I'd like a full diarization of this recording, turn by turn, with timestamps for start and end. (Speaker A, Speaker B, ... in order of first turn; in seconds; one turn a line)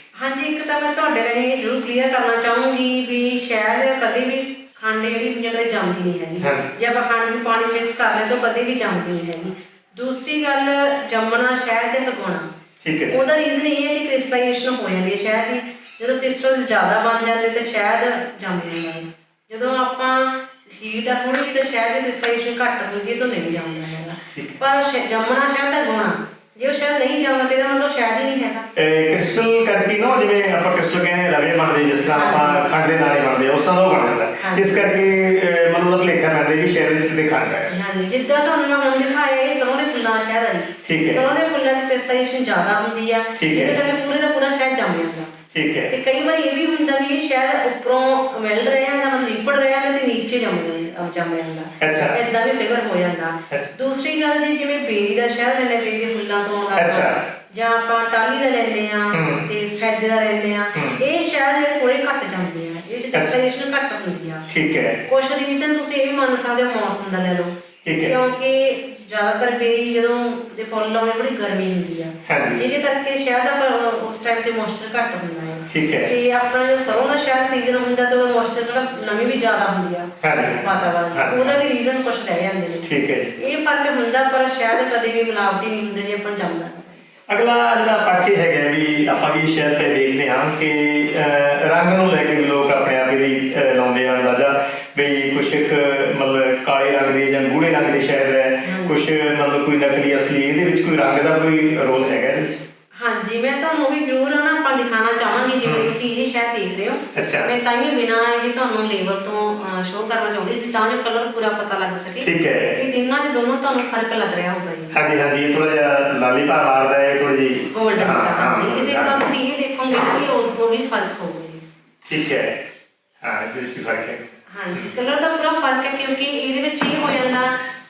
Speaker A: 0.2-12.5
Speaker B: 6.4-6.7
Speaker B: 12.8-13.2
Speaker A: 13.1-28.7
Speaker B: 24.3-24.6
Speaker B: 28.8-37.7
Speaker A: 32.1-32.7
Speaker A: 34.4-34.9
Speaker A: 37.7-45.3
Speaker B: 40.8-41.2
Speaker B: 43.4-43.8
Speaker B: 45.5-45.9
Speaker A: 45.9-64.5
Speaker B: 51.8-52.2
Speaker B: 56.8-57.2
Speaker B: 59.1-59.5
Speaker B: 60.8-61.0
Speaker B: 64.5-65.0
Speaker A: 65.1-67.5
Speaker B: 67.8-68.2
Speaker A: 68.1-82.9
Speaker B: 72.3-72.6
Speaker B: 75.7-76.1
Speaker B: 80.2-81.6
Speaker B: 82.8-83.4
Speaker A: 83.4-87.0
Speaker B: 87.3-102.6
Speaker A: 98.7-99.0
Speaker A: 103.0-115.0
Speaker B: 105.6-105.9
Speaker B: 107.1-107.5
Speaker B: 112.2-112.8
Speaker B: 114.9-119.2
Speaker A: 117.7-121.6
Speaker B: 122.1-122.6
Speaker B: 123.2-124.9
Speaker A: 124.5-127.6